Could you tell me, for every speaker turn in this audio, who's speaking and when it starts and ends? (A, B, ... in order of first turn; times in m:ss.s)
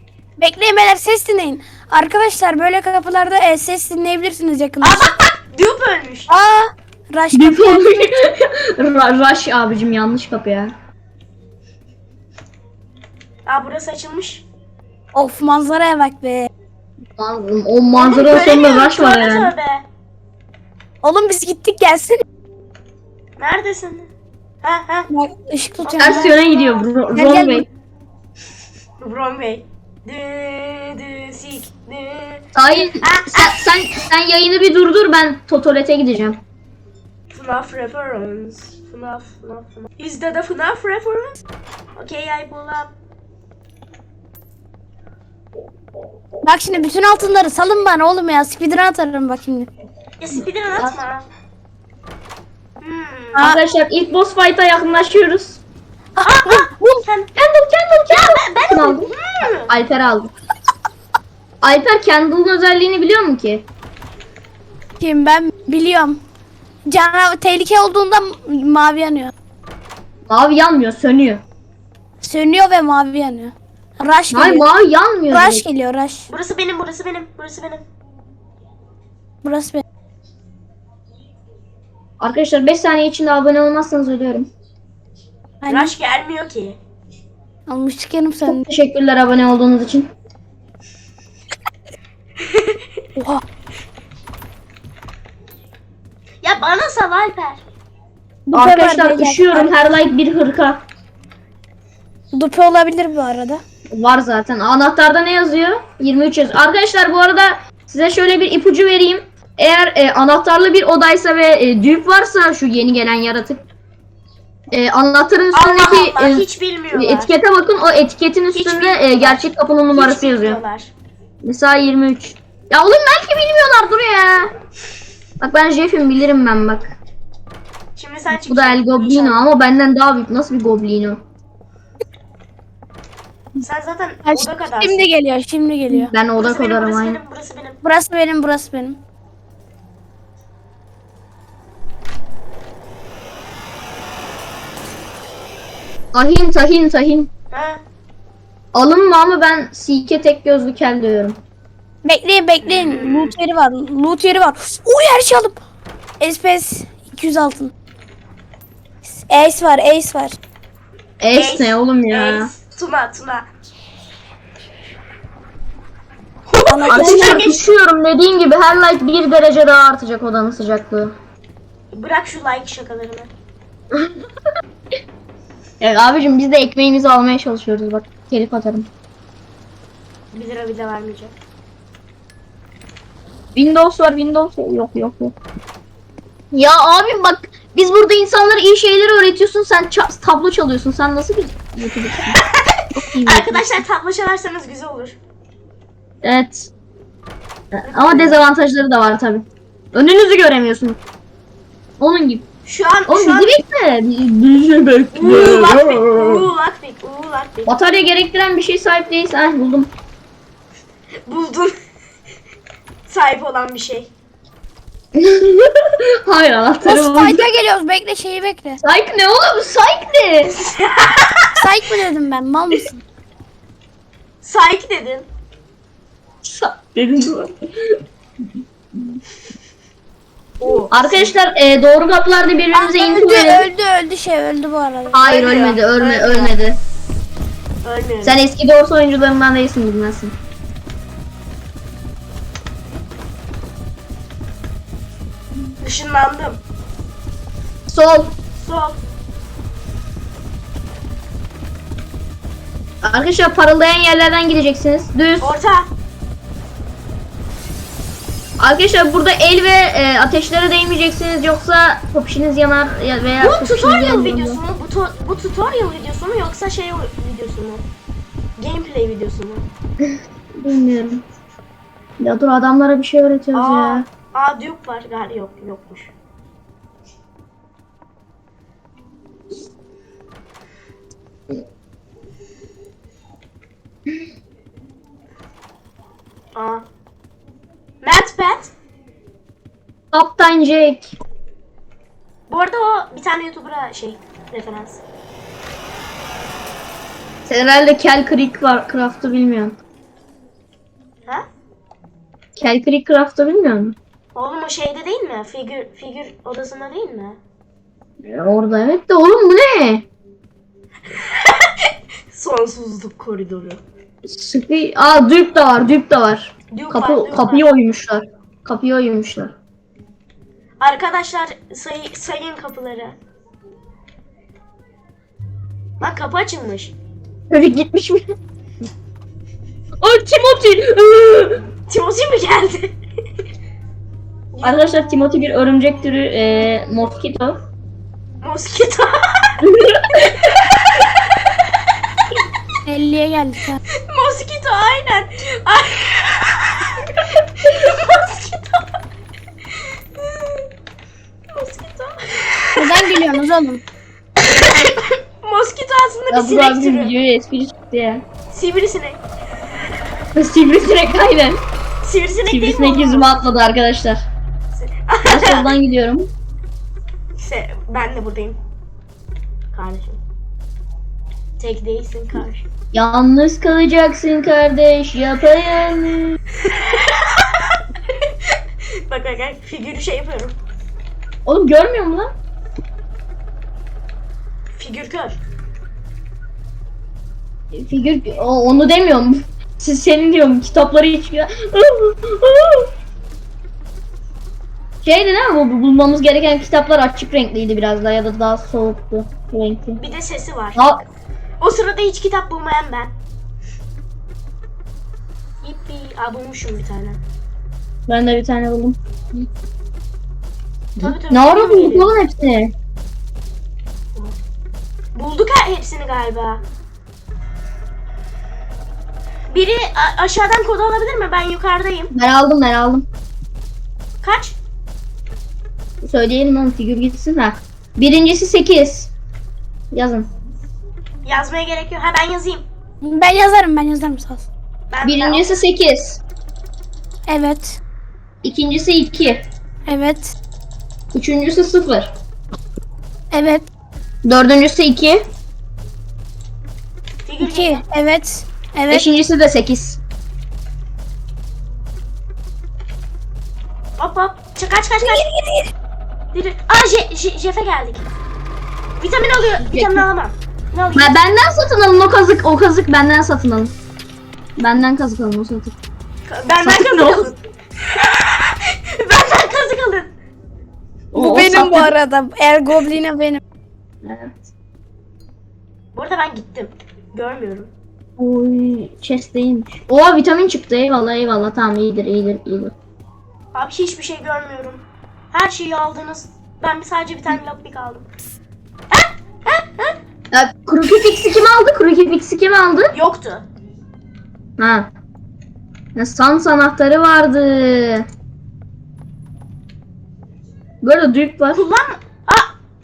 0:00.4-0:05.1 A
0:04.8-0:06.3 B
0:06.3-0:07.9 A
0:07.3-0:10.7 C
0:13.5-0:14.4 B
0:15.1-0:16.5 A
0:17.2-0:19.5 C
0:17.9-0:19.8 B
0:21.0-0:22.2 A
0:23.4-0:24.1 B
0:24.6-0:25.1 B
0:25.1-0:26.3 A
0:25.8-0:26.8 B
0:26.0-0:27.7 C
0:27.1-0:27.6 A
0:29.0-0:33.7 B
0:32.6-0:36.4 C
0:37.3-0:41.4 B
0:42.0-0:42.9 B
0:46.4-0:49.7 A
0:50.2-0:51.3 B
0:52.8-0:53.4 B
0:53.4-0:53.6 A
0:53.4-0:55.6 C
0:56.2-0:57.0 A
0:56.2-0:57.3 B
0:57.4-0:59.1 C
0:58.1-0:59.7 B
0:59.7-1:00.3 C
1:01.6-1:03.7 C
1:05.0-1:06.2 A
1:06.9-1:09.3 A
1:10.3-1:11.4 C
1:12.2-1:14.7 A
1:14.3-1:15.6 C
1:15.3-1:16.3 A
1:16.3-1:17.8 B
1:19.4-1:19.8 A
1:22.2-1:24.5 C
1:25.6-1:25.9 A
1:25.7-1:26.8 B
1:27.7-1:28.7 A
1:28.4-1:30.1 C
1:32.4-1:32.8 B
1:33.2-1:33.4 A
1:36.4-1:37.6 B
1:38.5-1:39.7 A
1:38.5-1:40.8 C
1:42.3-1:43.6 A
1:43.9-1:53.6 C
1:54.7-2:00.6 C
1:55.5-1:57.3 B
1:58.5-2:00.9 B
2:01.4-2:04.5 C
2:05.4-2:07.0 C
2:08.0-2:09.4 B
2:08.3-2:11.2 C
2:13.6-2:15.0 B
2:14.3-2:16.1 A
2:15.9-2:17.2 C
2:16.4-2:17.8 B
2:17.8-2:19.0 A
2:26.1-2:27.3 C
2:27.5-2:27.8 B
2:28.7-2:31.4 C
2:32.0-2:35.6 A
2:32.6-2:33.3 B
2:36.2-2:37.7 A
2:39.0-2:40.4 A
2:41.2-2:42.5 C
2:41.3-2:43.5 B
2:46.5-2:47.6 B
2:46.7-2:47.5 A
2:46.9-2:51.2 C
2:51.9-2:53.3 B
2:55.8-2:58.9 C
3:00.3-3:01.3 B
3:03.6-3:05.4 C
3:06.5-3:12.4 C
3:12.4-3:15.2 B
3:13.0-3:13.8 C
3:16.2-3:16.7 C
3:17.8-3:21.0 C
3:17.8-3:18.4 B
3:22.0-3:22.4 C
3:22.7-3:23.6 B
3:23.1-3:26.5 C
3:25.1-3:27.7 B
3:27.7-3:29.9 C
3:31.3-3:31.8 B
3:33.1-3:34.1 B
3:35.2-3:37.5 C
3:36.8-3:38.8 A
3:38.8-3:40.6 C
3:40.7-3:41.6 B
3:41.6-3:43.0 A
3:44.4-3:45.3 B
3:46.4-3:48.0 C
3:49.0-3:49.2 C
3:50.6-3:51.4 B
3:50.9-3:53.7 C
3:52.7-3:55.2 A
3:55.1-3:56.8 C
3:55.2-3:56.6 B
3:57.8-3:58.4 B
3:58.2-4:00.3 C
4:05.8-4:06.6 B
4:07.9-4:08.4 C
4:08.6-4:09.0 B
4:13.0-4:15.5 C
4:15.4-4:15.9 B
4:18.6-4:24.6 C
4:23.4-4:27.8 B
4:28.6-4:29.7 B
4:30.0-4:31.2 C
4:32.2-4:34.1 C
4:33.5-4:36.1 B
4:46.6-4:46.8 B
4:48.0-4:48.7 B
4:50.1-4:51.2 C
4:52.5-4:55.0 B
4:57.5-4:59.8 C
5:02.6-5:04.0 C
5:04.3-5:07.4 B
5:08.2-5:10.1 C
5:11.1-5:13.8 B
5:14.2-5:19.5 C
5:16.7-5:17.7 B
5:20.8-5:23.2 B
5:26.0-5:26.9 B
5:27.5-5:28.3 C
5:30.0-5:31.6 C
5:31.9-5:33.0 B
5:34.5-5:34.9 B
5:34.6-5:37.6 C
5:38.4-5:39.6 B
5:39.6-5:40.5 C
5:42.8-5:43.8 A
5:44.1-5:49.0 B
5:49.8-5:50.7 B
5:51.5-5:53.2 B
5:52.8-5:53.8 A
5:54.4-5:57.1 B
5:56.3-5:58.2 C
5:58.5-5:59.2 B
6:00.3-6:01.6 C
6:02.0-6:03.4 B
6:02.5-6:04.2 C
6:04.7-6:05.8 B
6:05.2-6:06.3 C
6:07.4-6:08.6 B
6:09.7-6:10.2 B
6:11.6-6:12.7 B
6:12.9-6:16.4 C
6:16.6-6:18.3 B
6:19.1-6:20.6 B
6:21.4-6:22.3 C
6:24.8-6:25.4 B
6:27.7-6:32.9 C
6:35.0-6:40.0 C
6:40.0-6:40.8 B
6:40.8-6:41.0 C
6:41.6-6:43.1 B
6:45.6-6:47.2 B
6:48.1-6:49.5 C
6:51.0-6:52.7 C
6:51.0-6:52.2 B
6:55.2-6:56.6 B
6:59.5-7:02.1 B
7:02.1-7:03.1 C
7:04.2-7:04.6 B
7:06.0-7:09.1 C
7:09.9-7:10.3 C
7:11.2-7:12.7 B
7:13.0-7:14.5 A
7:14.9-7:15.5 B
7:15.0-7:16.2 C
7:17.3-7:17.8 A
7:18.4-7:19.4 C
7:19.9-7:20.4 A
7:21.1-7:22.1 C
7:23.3-7:23.7 A
7:24.2-7:25.2 C
7:27.2-7:27.8 B
7:27.4-7:29.1 A
7:28.9-7:30.0 C
7:34.0-7:35.3 B
7:35.0-7:35.7 A
7:36.3-7:38.1 B
7:39.0-7:41.2 B
7:39.6-7:40.0 C
7:41.0-7:43.7 C
7:44.6-7:45.8 C
7:46.3-7:47.4 B
7:46.6-7:47.3 C
7:47.9-7:50.1 B
7:51.1-7:51.9 C
7:51.1-7:53.4 A
7:54.0-7:54.5 C
7:55.9-7:57.7 B
7:58.2-8:02.7 C
8:03.5-8:08.1 B
8:08.9-8:10.0 B
8:10.3-8:12.9 C
8:12.9-8:13.5 B
8:14.6-8:14.9 C
8:16.0-8:18.1 C
8:20.8-8:21.6 C
8:21.5-8:22.5 B